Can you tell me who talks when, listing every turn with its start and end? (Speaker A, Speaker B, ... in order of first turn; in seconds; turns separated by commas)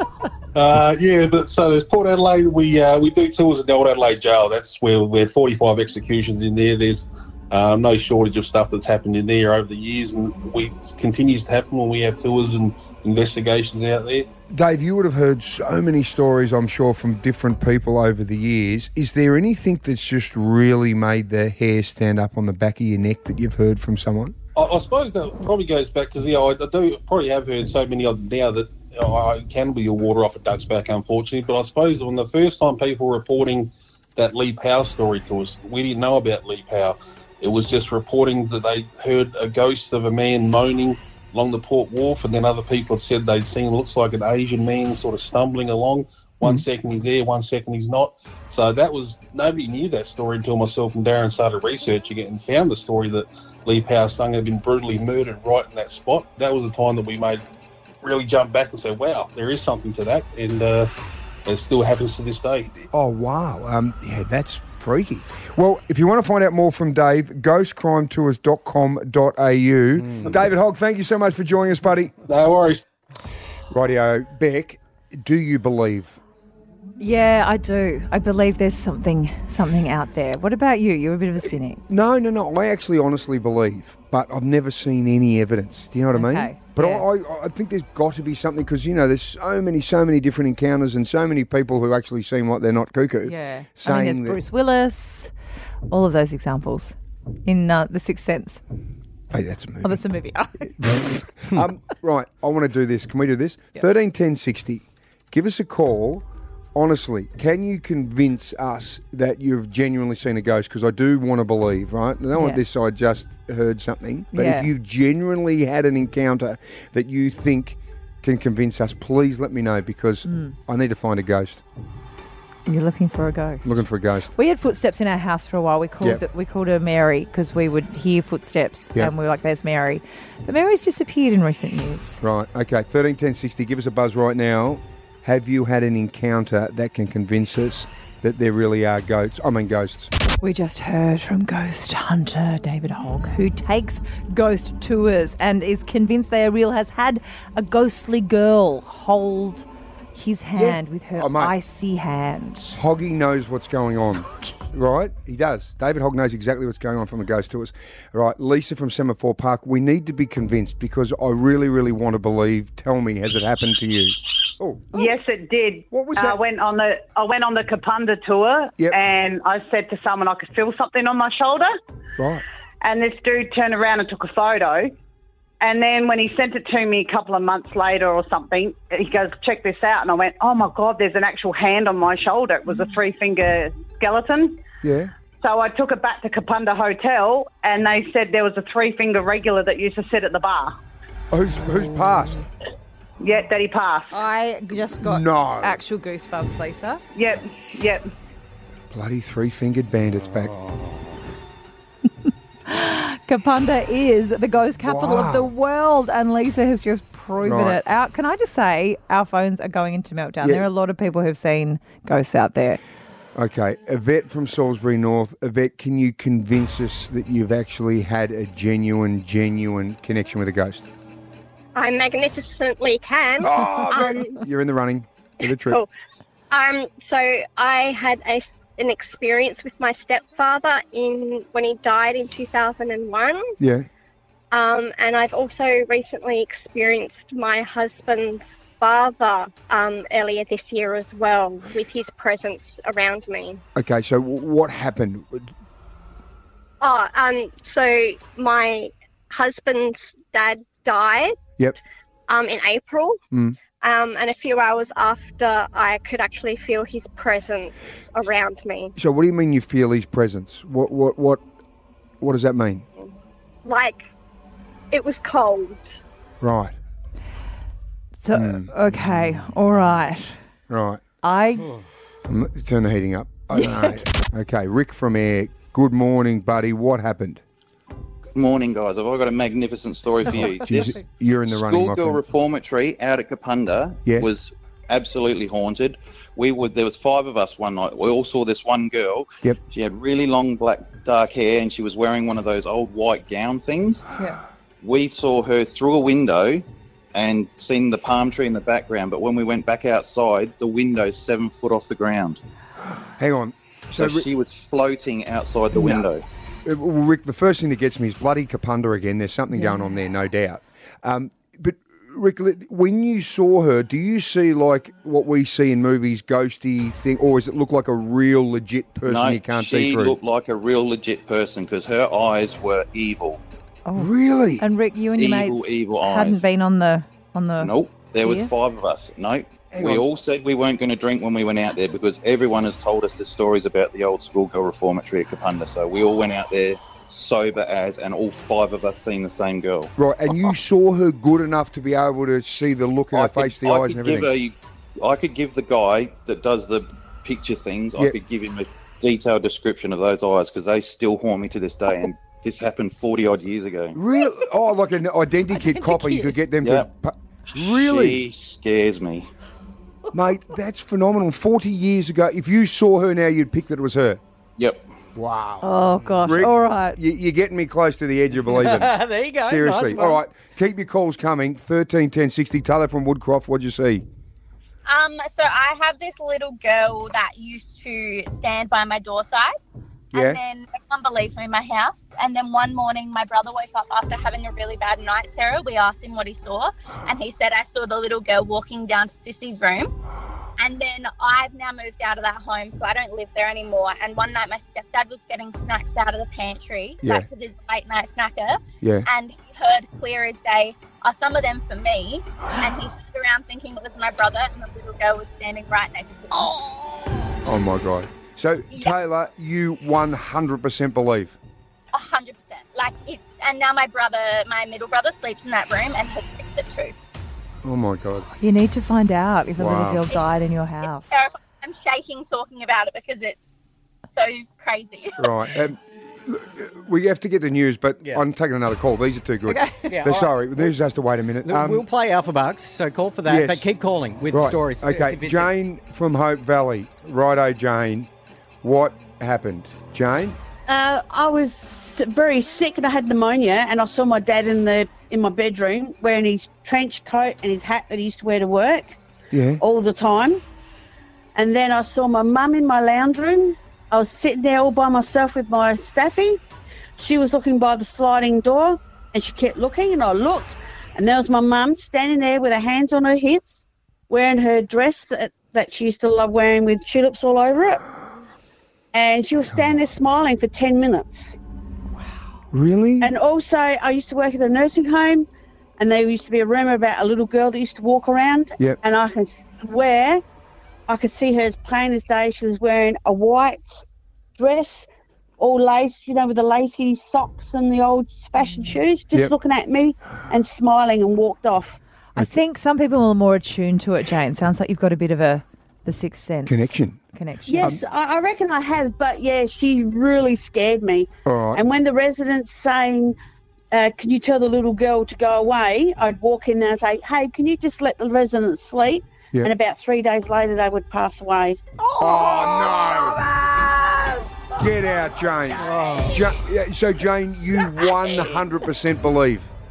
Speaker A: 0.5-14.3, Speaker B: 14.5-24.3, Speaker A: 24.6-57.4, Speaker A: 58.0-60.9, Speaker A: 61.5-62.7, Speaker B: 62.9-72.1, Speaker A: 72.3-72.8, Speaker B: 73.7-76.2, Speaker C: 77.0-81.8, Speaker B: 81.9-94.4, Speaker C: 86.1-87.0, Speaker C: 93.2-95.3, Speaker C: 95.9-96.9, Speaker C: 97.4-98.6, Speaker B: 99.3-100.0, Speaker C: 99.8-100.7, Speaker B: 100.7-121.6, Speaker C: 112.3-112.6, Speaker C: 114.3-114.7, Speaker C: 120.2-120.5, Speaker C: 122.7-123.8, Speaker B: 123.6-124.3, Speaker C: 124.3-132.2, Speaker B: 132.2-140.1, Speaker C: 140.4-152.8, Speaker B: 150.6-151.5, Speaker B: 152.7-165.1, Speaker D: 164.9-171.7, Speaker B: 165.9-166.4, Speaker B: 172.2-172.4, Speaker D: 172.8-174.9, Speaker D: 175.6-184.6, Speaker B: 184.8-185.1, Speaker D: 185.4-190.7, Speaker B: 191.3-192.4, Speaker D: 193.2-194.1, Speaker C: 194.1-197.0, Speaker B: 195.0-195.8, Speaker D: 197.1-198.0, Speaker B: 198.9-200.5, Speaker C: 202.7-212.8, Speaker B: 204.8-205.5, Speaker B: 207.4-207.8, Speaker B: 210.4-210.7, Speaker B: 213.3-220.9, Speaker E: 221.7-224.4, Speaker B: 223.4-225.8, Speaker E: 225.4-225.9, Speaker E: 226.5-233.5, Speaker B: 233.6-233.9, Speaker E: 234.5-243.6, Speaker B: 243.8-245.5, Speaker E: 246.8-251.4, Speaker E: 252.3-253.2, Speaker B: 253.3-253.6, Speaker E: 253.7-258.9, Speaker B: 258.9-261.4, Speaker B: 262.2-262.8, Speaker E: 263.6-264.1, Speaker E: 264.9-266.0, Speaker B: 266.4-266.7, Speaker C: 268.2-270.4, Speaker B: 268.3-268.7, Speaker B: 270.7-271.0, Speaker C: 271.2-271.7, Speaker B: 272.2-277.4, Speaker C: 273.5-274.0, Speaker F: 278.3-294.1, Speaker C: 280.4-281.0, Speaker B: 280.4-282.2, Speaker F: 294.8-302.4, Speaker B: 303.2-304.2, Speaker F: 303.9-306.2, Speaker B: 305.7-306.0, Speaker B: 306.6-320.1, Speaker C: 309.5-309.9, Speaker F: 319.0-323.4, Speaker C: 323.9-327.7, Speaker B: 323.9-324.6, Speaker F: 325.1-326.4, Speaker F: 327.6-339.9, Speaker C: 328.2-328.5, Speaker B: 329.7-330.0, Speaker B: 340.0-344.3, Speaker F: 343.1-354.0, Speaker B: 353.9-358.2, Speaker C: 355.5-356.4, Speaker F: 356.6-356.9, Speaker F: 357.5-359.3, Speaker B: 360.1-364.2, Speaker F: 364.6-364.9, Speaker B: 365.1-365.7, Speaker C: 365.6-367.0, Speaker B: 366.2-374.0, Speaker G: 368.5-370.2, Speaker H: 374.9-379.5, Speaker B: 380.1-380.4, Speaker H: 380.1-389.9, Speaker H: 390.6-406.5, Speaker B: 398.8-399.1, Speaker B: 407.4-411.4, Speaker H: 411.9-416.9, Speaker B: 417.6-418.3, Speaker C: 418.4-421.1, Speaker B: 419.6-420.0, Speaker H: 420.1-423.5, Speaker H: 424.1-425.3, Speaker B: 425.2-431.9, Speaker C: 429.5-430.0, Speaker G: 429.9-430.3, Speaker G: 431.4-435.5, Speaker B: 433.2-433.6, Speaker B: 434.3-438.1, Speaker B: 438.6-440.4, Speaker I: 440.7-449.0, Speaker B: 449.3-449.6, Speaker I: 449.6-450.4, Speaker I: 451.3-456.4, Speaker I: 457.0-467.8, Speaker I: 468.9-471.4, Speaker B: 469.5-469.8, Speaker B: 472.5-473.1, Speaker I: 473.0-475.3, Speaker I: 475.8-480.2, Speaker I: 480.9-483.8, Speaker I: 484.4-484.9, Speaker I: 485.4-491.8, Speaker C: 492.1-497.8, Speaker B: 496.4-497.0, Speaker I: 497.5-503.1, Speaker B: 501.2-501.6, Speaker I: 503.7-511.6, Speaker B: 512.0-513.2, Speaker G: 513.4-513.9, Speaker B: 514.6-519.5, Speaker G: 515.6-516.2